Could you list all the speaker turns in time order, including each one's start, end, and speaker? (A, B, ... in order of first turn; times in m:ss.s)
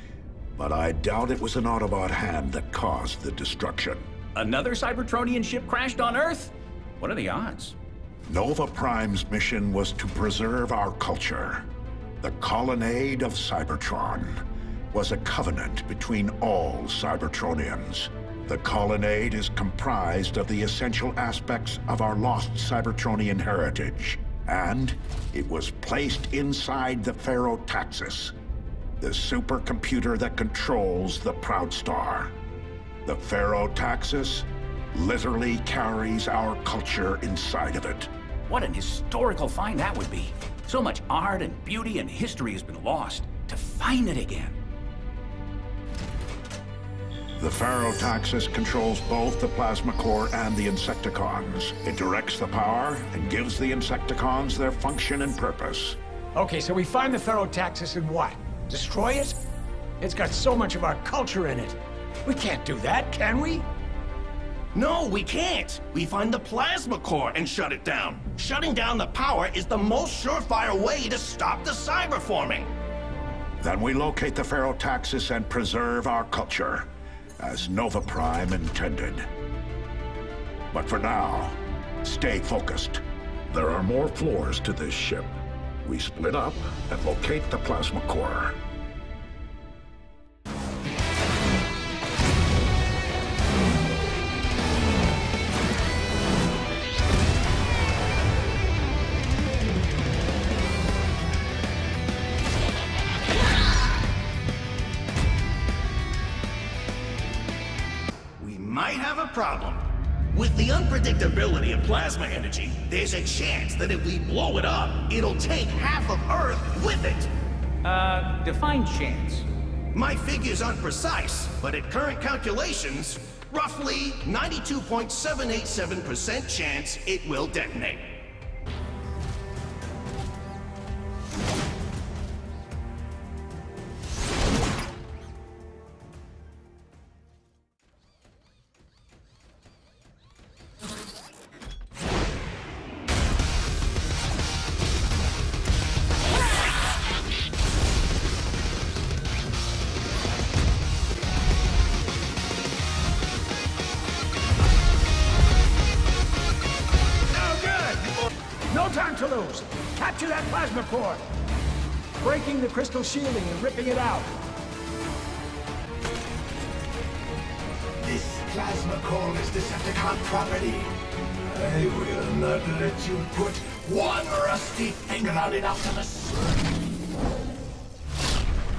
0:00.6-0:04.1 A
0:04.3-0:07.8 B
0:08.2-0:11.7 A
0:12.2-0:28.3 A
0:29.0-0:32.3 A
0:33.0-0:38.1 A
0:38.5-0:44.6 B
0:47.4-0:56.0 A
0:56.3-0:59.4 C
1:00.0-1:03.6 C
1:04.7-1:12.7 D
1:13.6-1:19.3 A
1:20.7-1:28.6 A
1:48.4-1:57.3 D
1:57.8-1:59.4 B
1:59.9-2:08.2 D
2:37.3-2:38.1 C
2:38.7-2:41.2 C
2:42.2-2:44.3 C
2:48.0-2:50.9 E
2:51.4-2:56.7 E